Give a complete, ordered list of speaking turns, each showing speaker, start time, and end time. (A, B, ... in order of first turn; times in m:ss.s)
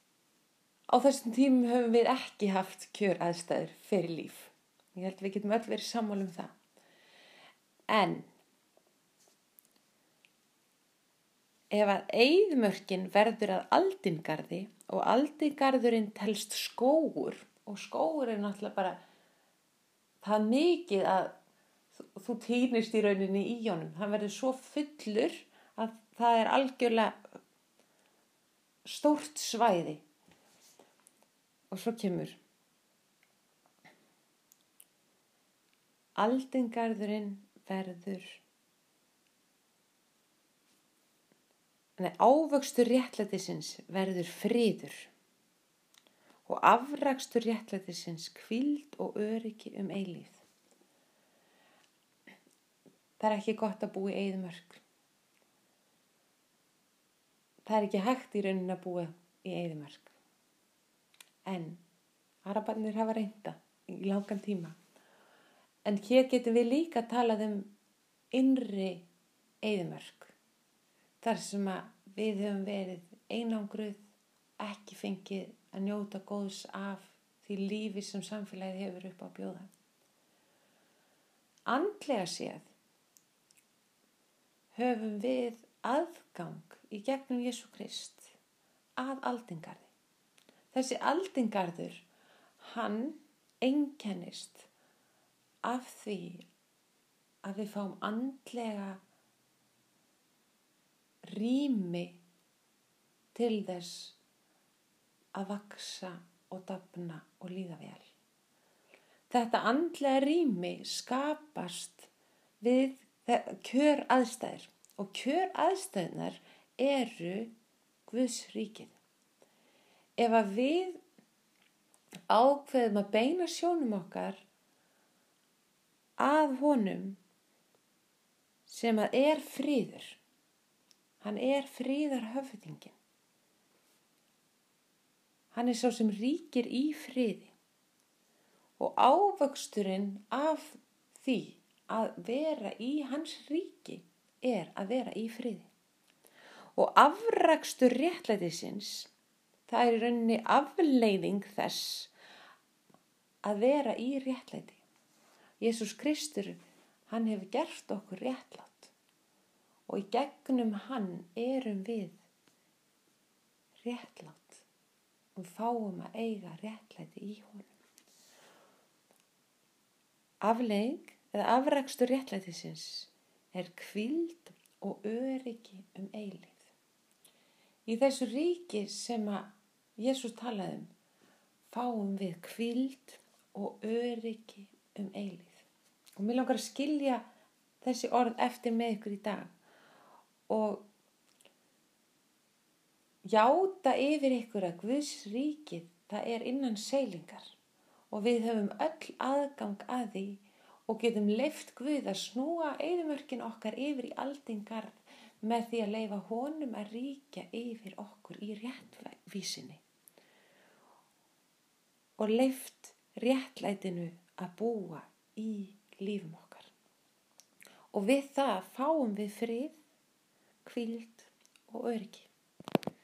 0:00.9-0:06.5 A
0:07.9-0:08.3 A
0:11.7-0:19.0 A
0:20.2-0:21.3 A
0:22.0-0:27.2 A
0:28.8-0:30.0 A
0:31.7-0:32.4 A
0:36.2-0:38.4 A
0:42.0-0:45.1 A
0:46.4-0:50.4 A
0:53.2-0:54.8 A
0:57.6-1:00.1 A
1:01.4-1:01.8 A
1:02.4-1:04.8 A
1:05.8-1:07.7 A
1:08.3-1:09.1 A
1:09.6-1:10.3 A
1:11.2-1:14.0 A
1:14.6-1:19.7 A
1:21.7-1:22.7 A
1:24.7-1:28.3 A
1:29.0-1:29.9 A
1:30.7-1:32.0 A
1:32.6-1:34.7 A
1:35.6-1:36.5 A
1:37.4-1:39.0 A
1:41.3-1:42.2 A
1:43.3-1:44.2 A
1:45.3-1:48.1 A
1:49.3-1:52.1 A
1:52.6-1:57.5 A
1:58.1-1:58.9 A
2:00.2-2:01.0 A
2:02.3-2:04.4 A
2:06.2-2:07.2 A
2:08.7-2:10.2 A
2:11.2-2:13.0 A
2:15.5-2:17.5 A
2:18.8-2:25.7 A
2:26.8-2:29.1 A
2:29.7-2:32.1 A
2:33.4-2:34.8 A
2:35.6-2:38.9 A
2:39.9-2:42.2 A
2:43.8-2:44.6 A
2:45.4-2:47.8 A
2:50.4-2:56.6 A
2:57.8-3:00.9 A
3:01.7-3:05.6 A
3:06.2-3:07.2 A
3:07.8-3:09.5 A
3:10.5-3:10.9 A
3:13.2-3:17.5 A
3:18.1-3:29.8 A
3:32.2-3:36.7 A
3:37.9-3:39.8 A
3:40.6-3:42.3 A